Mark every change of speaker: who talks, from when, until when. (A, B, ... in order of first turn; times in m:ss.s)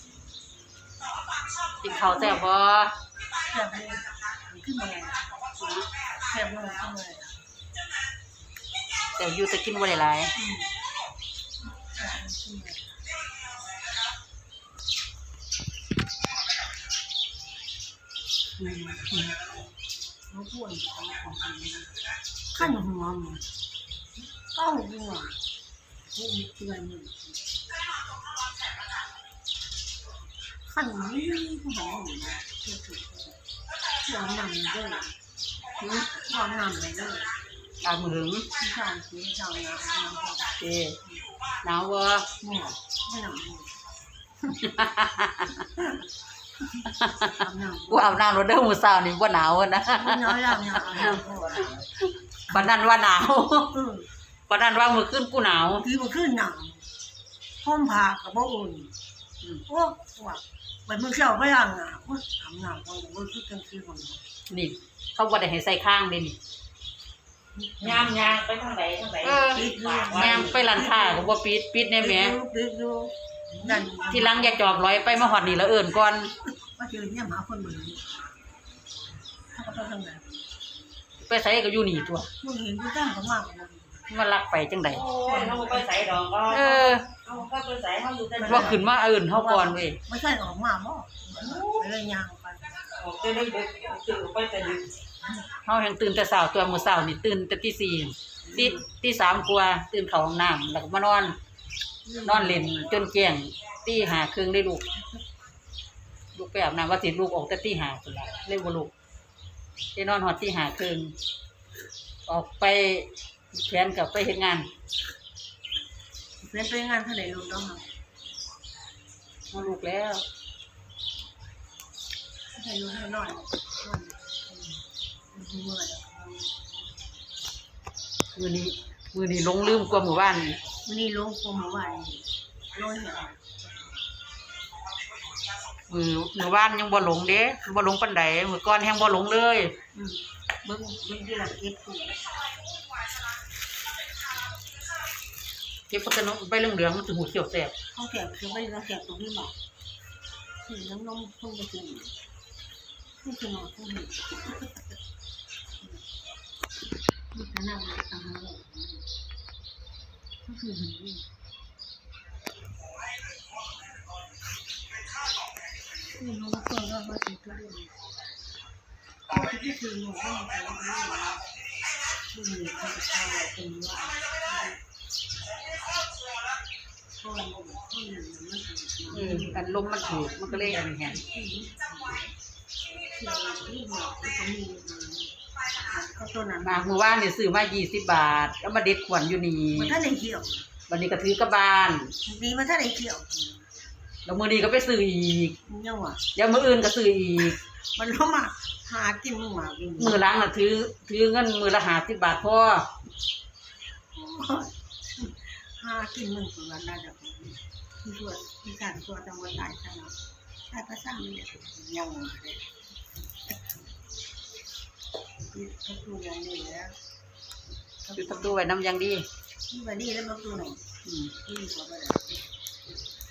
0:01.8-0:03.0 A
0:02.0-0:02.4 B
0:03.5-0:05.3 B
0:06.2-0:07.4 B
0:09.2-0:10.3 A
0:10.4-0:10.7 B
0:11.9-0:13.0 B
0:18.6-0:19.3 A
0:20.3-0:21.9 B
0:22.6-0:23.5 B
0:24.5-0:25.4 B
0:26.1-0:27.4 B
0:30.7-0:33.4 B
0:34.0-0:35.2 B
0:35.8-0:36.1 A
0:36.1-0:37.3 B
0:37.8-0:38.5 A
0:38.6-0:41.2 B
0:40.6-0:41.0 A
0:41.6-0:42.3 A
0:42.4-0:43.7 B
0:44.4-0:44.7 B
0:44.6-0:45.7 A
0:46.8-0:48.2 B
0:47.0-0:51.2 A
0:49.9-0:51.8 B
0:51.8-0:53.7 A
0:53.7-0:54.1 B
0:54.5-0:55.8 A
0:55.8-0:56.9 B
0:57.6-0:58.9 B
0:59.7-1:04.2 B
1:04.5-1:06.4 A
1:07.6-1:08.4 B
1:07.8-1:10.6 C
1:09.2-1:12.4 A
1:09.4-1:11.4 B
1:12.0-1:15.6 B
1:13.9-1:16.3 A
1:16.4-1:18.1 B
1:19.5-1:20.3 B
1:21.2-1:22.3 A
1:22.4-1:24.1 B
1:24.1-1:25.0 A
1:24.9-1:28.8 C
1:25.2-1:26.2 B
1:26.5-1:27.1 A
1:28.4-1:32.8 B
1:28.4-1:30.0 A
1:31.3-1:31.8 C
1:32.9-1:34.9 C
1:35.6-1:41.4 A
1:38.4-1:38.8 B
1:42.1-1:42.8 B
1:42.2-1:44.8 A
1:44.9-1:45.2 B
1:46.4-1:48.9 A
1:50.0-1:51.2 A
1:52.3-1:54.7 A
1:56.4-1:57.9 B
1:59.5-2:00.3 A
2:02.5-2:04.8 B
2:05.3-2:06.7 B
2:08.4-2:10.6 A
2:10.8-2:14.0 B
2:15.9-2:19.7 A
2:19.9-2:22.2 B
2:25.9-2:27.7 A
2:27.9-2:29.6 B
2:30.6-2:32.2 B
2:33.2-2:34.4 B
2:35.8-2:36.0 B
2:37.3-2:39.0 B
2:40.4-2:41.3 B
2:46.1-2:48.0 B
2:49.3-2:51.5 B
2:52.3-2:54.8 B
2:57.2-3:02.3 B
2:59.1-3:01.2 A
3:03.1-3:07.0 B
3:06.6-3:10.0 A
3:09.7-3:10.6 B
3:10.9-3:12.1 A
3:12.2-3:13.7 B
3:14.3-3:15.6 A
3:15.7-3:16.2 B
3:16.4-3:17.6 A
3:18.0-3:20.2 B
3:20.0-3:22.9 A
3:24.1-3:30.2 B
3:30.7-3:32.7 B
3:35.5-3:37.0 B
3:38.0-3:38.6 B
3:38.2-3:39.3 A
3:39.7-3:40.8 B
3:41.0-3:41.3 A
3:41.3-3:42.3 B